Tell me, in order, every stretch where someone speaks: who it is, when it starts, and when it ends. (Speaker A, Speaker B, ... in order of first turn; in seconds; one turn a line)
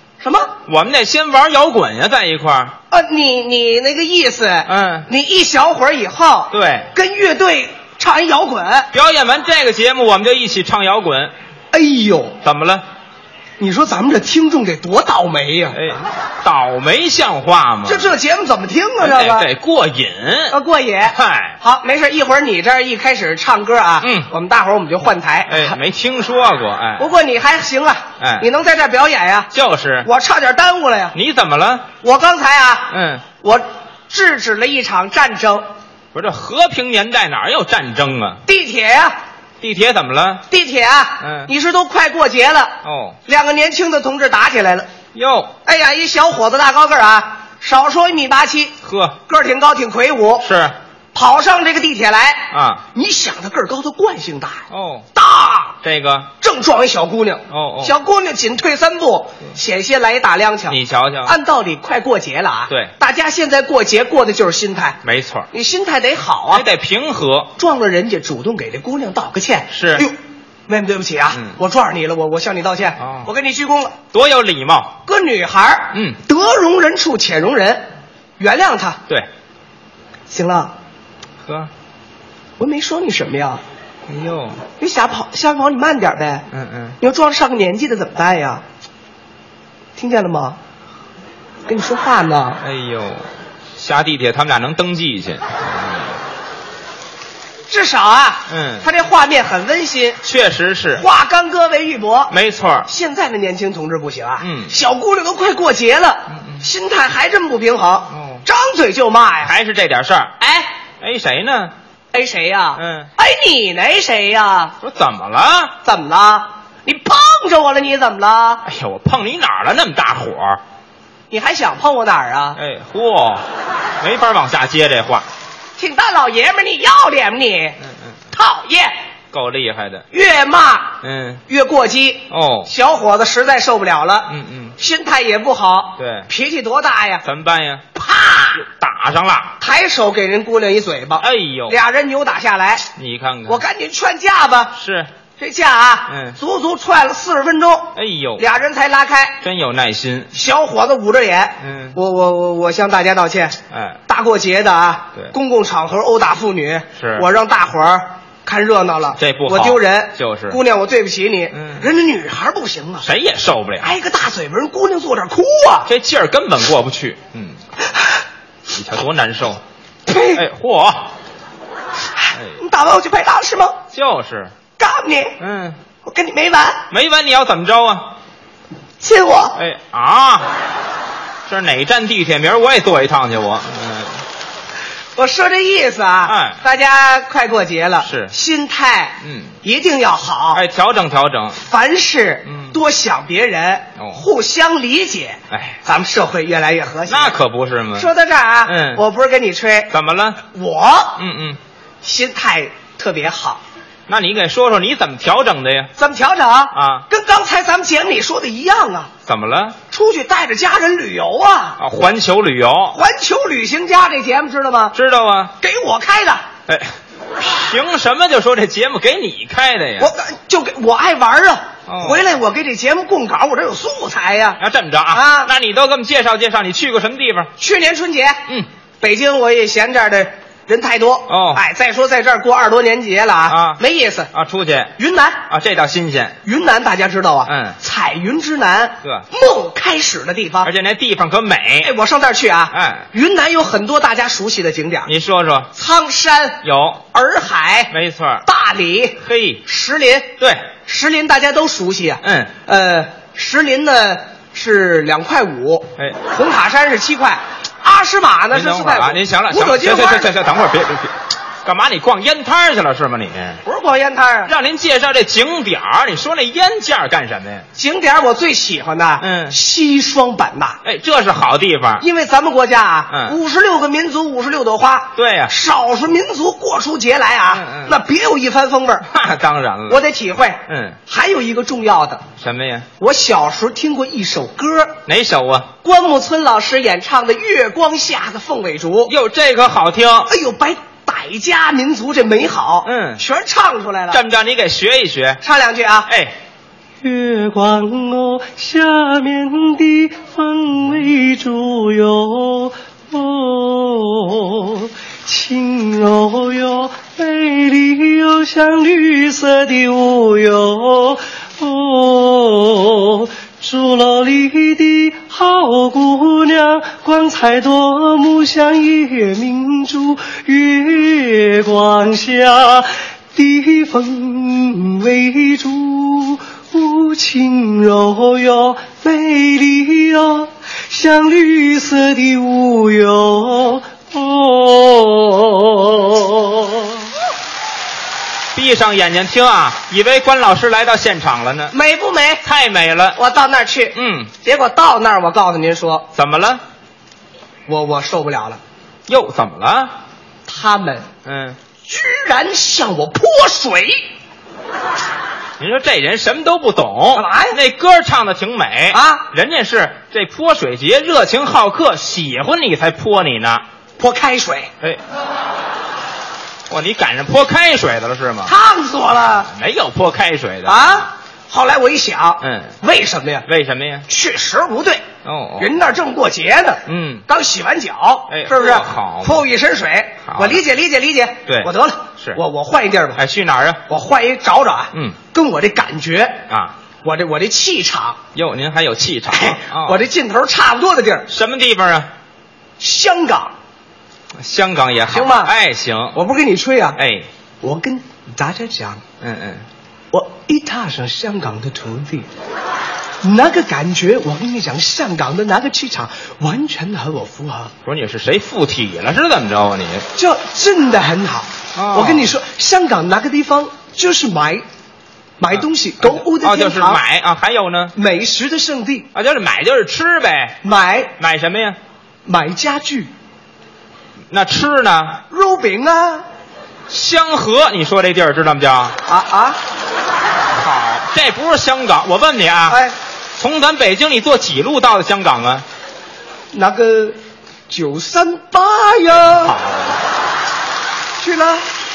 Speaker A: 0.2-0.5
Speaker B: 0.7-2.8
Speaker A: 2.9-8.9
Speaker B: 4.7-5.1
Speaker B: 6.5-6.9
Speaker B: 8.9-11.3
Speaker A: 11.7-12.4
Speaker B: 12.4-12.8
Speaker A: 13.6-16.0
Speaker B: 15.7-18.1
Speaker A: 17.9-19.5
Speaker B: 19.0-20.6
Speaker A: 20.5-25.8
Speaker B: 21.1-21.6
Speaker B: 24.0-24.3
Speaker B: 25.5-27.1
Speaker A: 27.0-29.5
Speaker B: 28.2-28.5
Speaker B: 29.5-30.1
Speaker A: 30.0-31.1
Speaker B: 31.1-31.9
Speaker A: 32.0-35.6
Speaker B: 32.9-33.2
Speaker B: 36.1-38.4
Speaker A: 38.5-39.1
Speaker B: 39.6-40.5
Speaker A: 40.5-44.9
Speaker B: 41.2-41.5
Speaker B: 42.8-43.2
Speaker B: 45.1-45.5
Speaker A: 45.7-48.8
Speaker B: 48.8-49.2
Speaker A: 49.3-50.5
Speaker B: 50.4-50.8
Speaker A: 51.1-55.8
Speaker B: 52.5-52.8
Speaker B: 54.7-55.1
Speaker B: 55.8-56.3
Speaker A: 56.4-65.0
Speaker B: 57.5-58.0
Speaker B: 60.7-61.4
Speaker B: 65.0-65.5
Speaker A: 65.5-66.7
Speaker B: 66.5-67.5
Speaker A: 67.6-70.2
Speaker B: 69.7-70.1
Speaker A: 70.7-74.0
Speaker B: 71.3-71.6
Speaker B: 73.0-73.3
Speaker B: 74.1-75.0
Speaker A: 75.1-77.8
Speaker B: 75.9-76.2
Speaker A: 78.4-79.0
Speaker A: 80.3-80.7
Speaker B: 81.5-81.7
Speaker A: 82.6-83.6
Speaker B: 84.1-84.6
Speaker A: 84.8-86.5
Speaker B: 86.5-87.0
Speaker A: 87.0-88.6
Speaker A: 90.0-90.6
Speaker A: 91.7-92.6
Speaker B: 92.6-96.2
Speaker A: 97.7-100.2
Speaker B: 98.5-98.9
Speaker B: 100.2-101.0
Speaker A: 100.9-102.3
Speaker B: 102.3-102.9
Speaker A: 102.9-109.5
Speaker B: 104.4-104.7
Speaker B: 108.1-108.4
Speaker B: 109.4-111.7
Speaker A: 112.1-114.8
Speaker B: 112.8-113.1
Speaker B: 114.8-115.8
Speaker A: 115.8-118.6
Speaker B: 118.7-120.6
Speaker A: 121.3-122.6
Speaker B: 122.6-123.4
Speaker B: 124.0-125.3
Speaker A: 125.8-127.8
Speaker A: 128.3-128.9
Speaker B: 129.3-130.1
Speaker A: 130.1-137.2
Speaker B: 131.0-131.4
Speaker B: 132.3-132.7
Speaker B: 134.3-134.8
Speaker B: 136.0-136.3
Speaker B: 137.2-137.8
Speaker A: 137.9-138.7
Speaker B: 138.5-139.6
Speaker A: 139.6-142.9
Speaker B: 141.2-141.8
Speaker B: 143.0-143.6
Speaker A: 143.5-144.8
Speaker B: 144.8-145.1
Speaker A: 145.4-149.4
Speaker B: 146.1-146.4
Speaker B: 148.0-148.4
Speaker B: 149.4-150.3
Speaker A: 150.3-153.6
Speaker B: 151.6-152.0
Speaker B: 153.7-154.0
Speaker A: 154.1-163.1
Speaker B: 157.0-157.3
Speaker B: 159.2-160.6
Speaker B: 161.5-161.9
Speaker B: 163.0-163.9
Speaker A: 163.8-165.9
Speaker B: 165.9-167.6
Speaker B: 168.7-171.1
Speaker A: 170.1-170.4
Speaker A: 172.2-173.8
Speaker B: 172.3-172.6
Speaker B: 173.9-174.5
Speaker A: 174.8-175.4
Speaker B: 175.4-175.8
Speaker A: 176.1-176.9
Speaker B: 176.9-178.1
Speaker A: 179.0-179.6
Speaker B: 179.6-180.5
Speaker B: 181.5-184.2
Speaker A: 185.2-190.6
Speaker B: 186.3-186.6
Speaker B: 188.0-188.3
Speaker B: 189.2-189.6
Speaker B: 190.5-191.6
Speaker A: 191.7-197.4
Speaker B: 192.5-192.8
Speaker B: 194.0-194.2
Speaker B: 195.5-195.8
Speaker B: 197.1-198.1
Speaker A: 198.0-201.2
Speaker B: 198.7-199.0
Speaker B: 199.9-200.4
Speaker B: 201.2-201.6
Speaker A: 202.0-203.6
Speaker B: 204.1-205.9
Speaker A: 206.0-209.1
Speaker B: 206.7-207.1
Speaker B: 209.3-209.8
Speaker A: 209.9-211.8
Speaker B: 211.8-213.0
Speaker A: 212.9-214.9
Speaker B: 214.9-215.5
Speaker A: 215.6-216.4
Speaker B: 216.7-220.1
Speaker A: 220.0-224.6
Speaker B: 221.9-222.2
Speaker B: 224.6-227.5
Speaker A: 225.1-225.5
Speaker A: 227.6-228.4
Speaker A: 229.0-234.3
Speaker B: 231.3-231.6
Speaker B: 233.5-234.9
Speaker A: 235.0-235.4
Speaker B: 235.5-236.4
Speaker A: 236.4-240.7
Speaker B: 237.5-237.8
Speaker B: 240.6-241.9
Speaker A: 241.8-245.1
Speaker B: 242.7-243.1
Speaker B: 245.1-245.7
Speaker A: 245.7-247.9
Speaker B: 246.6-247.1
Speaker B: 247.9-248.4
Speaker A: 248.4-260.4
Speaker B: 249.2-249.6
Speaker B: 250.4-250.7
Speaker B: 252.2-252.5
Speaker B: 258.5-263.6
Speaker A: 263.6-264.5
Speaker B: 264.5-267.7
Speaker A: 267.8-270.8
Speaker B: 269.2-269.6
Speaker B: 270.8-272.1
Speaker A: 272.0-279.1
Speaker B: 273.1-273.4
Speaker B: 275.2-275.5
Speaker B: 277.5-278.0
Speaker B: 279.1-280.0
Speaker A: 279.9-282.2
Speaker B: 280.7-281.0
Speaker B: 282.4-282.9
Speaker A: 283.0-285.0
Speaker B: 285.1-285.7
Speaker A: 285.8-289.1
Speaker B: 289.1-290.3
Speaker A: 290.3-294.2
Speaker B: 292.9-293.2
Speaker B: 294.1-295.4
Speaker A: 295.4-296.1
Speaker B: 296.1-296.3
Speaker A: 297.0-337.1
Speaker B: 338.6-341.8
Speaker A: 341.7-342.4
Speaker B: 342.4-343.2
Speaker A: 343.1-346.1
Speaker B: 343.9-344.3
Speaker B: 346.1-346.6
Speaker A: 347.7-348.6
Speaker B: 349.1-349.9
Speaker A: 350.5-351.1
Speaker B: 351.2-351.6
Speaker A: 351.8-354.1
Speaker B: 355.6-363.6
Speaker A: 357.1-357.6
Speaker A: 358.9-359.3
Speaker A: 364.0-364.7
Speaker B: 366.7-368.5
Speaker A: 368.4-369.5
Speaker B: 369.5-371.1
Speaker A: 370.6-373.5
Speaker B: 372.4-372.8
Speaker B: 373.5-374.1
Speaker A: 374.1-375.0
Speaker B: 375.2-375.7
Speaker A: 375.6-383.2
Speaker B: 376.9-377.3
Speaker B: 378.3-379.5
Speaker B: 380.3-380.6
Speaker B: 381.5-382.4
Speaker B: 383.2-383.8
Speaker A: 383.9-386.4
Speaker B: 386.5-386.8
Speaker A: 387.0-388.2
Speaker B: 388.4-390.0
Speaker A: 389.3-391.3
Speaker B: 391.3-392.1
Speaker A: 392.8-393.5
Speaker B: 394.4-396.2
Speaker A: 395.1-395.5
Speaker A: 396.1-397.0
Speaker B: 397.0-397.3
Speaker A: 397.6-399.0
Speaker B: 399.2-399.6
Speaker A: 400.1-402.3
Speaker A: 403.2-407.7
Speaker B: 407.9-410.1
Speaker A: 410.1-414.6
Speaker B: 411.8-412.3
Speaker A: 415.4-417.0
Speaker B: 415.6-417.9
Speaker A: 417.9-419.1
Speaker B: 419.1-420.6
Speaker A: 420.6-421.1
Speaker B: 421.2-421.8
Speaker A: 422.3-423.1
Speaker B: 424.3-425.2
Speaker A: 425.3-426.2
Speaker B: 426.9-429.0
Speaker A: 429.1-429.6
Speaker B: 430.5-432.8
Speaker A: 432.7-432.9
Speaker B: 433.4-435.6
Speaker A: 436.5-437.2
Speaker A: 437.7-439.6
Speaker B: 439.3-440.0
Speaker A: 441.2-441.6